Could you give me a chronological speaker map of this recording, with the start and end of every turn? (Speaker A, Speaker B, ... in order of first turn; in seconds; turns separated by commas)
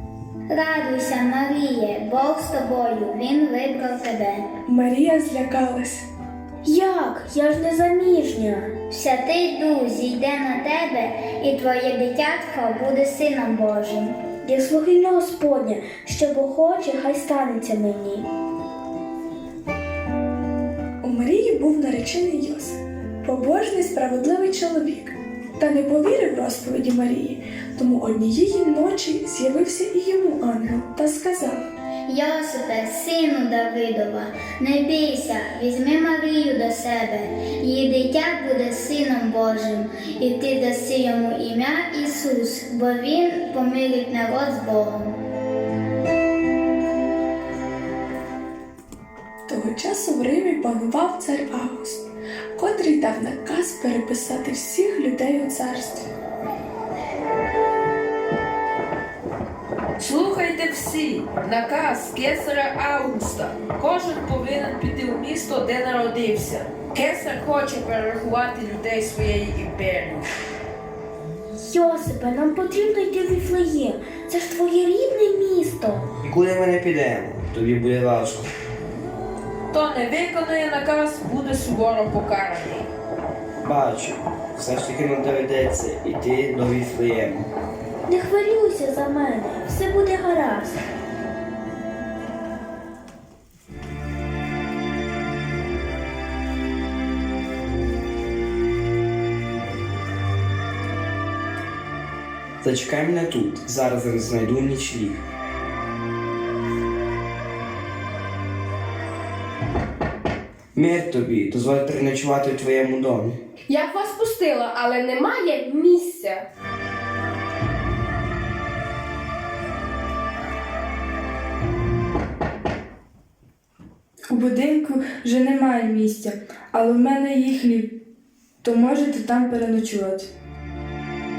Speaker A: 0.5-4.4, Speaker B: 4.7-6.0, Speaker C: 6.6-8.8, Speaker A: 8.9-14.2, Speaker C: 14.4-18.3, Speaker B: 21.0-31.6, Speaker A: 32.1-45.2, Speaker B: 49.5-52.0, Speaker B: 52.5-56.1, Speaker D: 60.0-70.3, Speaker C: 71.6-76.1, Speaker E: 76.2-78.5, Speaker D: 79.7-82.9, Speaker E: 83.6-87.5, Speaker C: 88.1-90.8, Speaker E: 102.6-105.2, Speaker E: 110.8-113.3, Speaker F: 113.7-116.4, Speaker G: 124.3-127.9, Speaker G: 128.6-130.3